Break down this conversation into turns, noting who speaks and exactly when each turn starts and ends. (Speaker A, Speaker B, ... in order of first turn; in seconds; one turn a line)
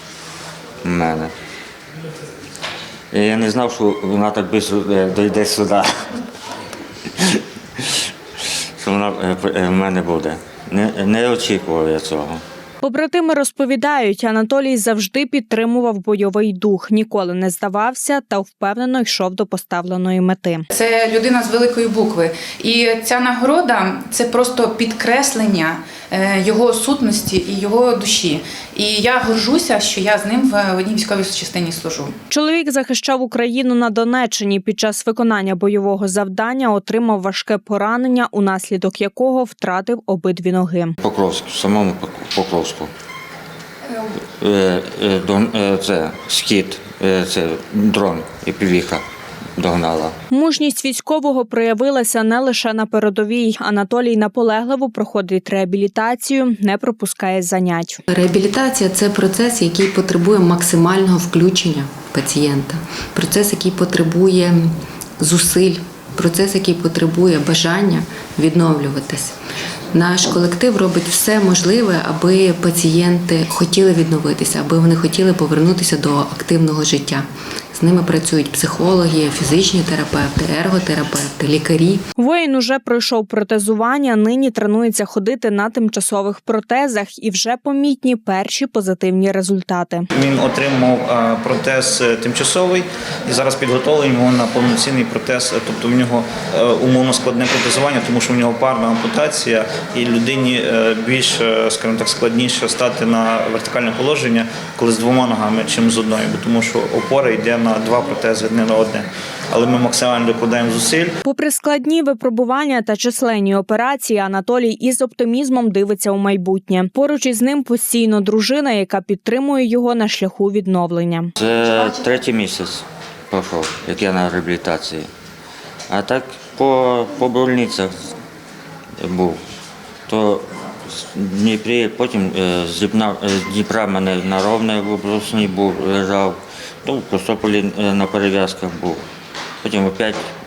Speaker A: 0.8-1.3
Speaker A: 3.1-6.1
Speaker A: 7.2-8.0
Speaker A: 8.8-12.4
Speaker B: 12.8-20.7
Speaker C: 20.7-32.1
Speaker B: 32.3-41.0
Speaker A: 41.0-42.9
Speaker A: 44.4-49.0
Speaker A: 49.6-50.2
Speaker B: 50.3-58.0
Speaker D: 58.1-69.4
Speaker D: 69.9-82.0
Speaker B: 82.2-90.1
Speaker E: 90.1-111.2
Speaker B: 111.2-121.3
Speaker A: 121.4-125.1
Speaker A: 125.9-127.9
Speaker A: 129.0-129.4
Speaker A: 130.1-139.0
Speaker A: 139.6-140.2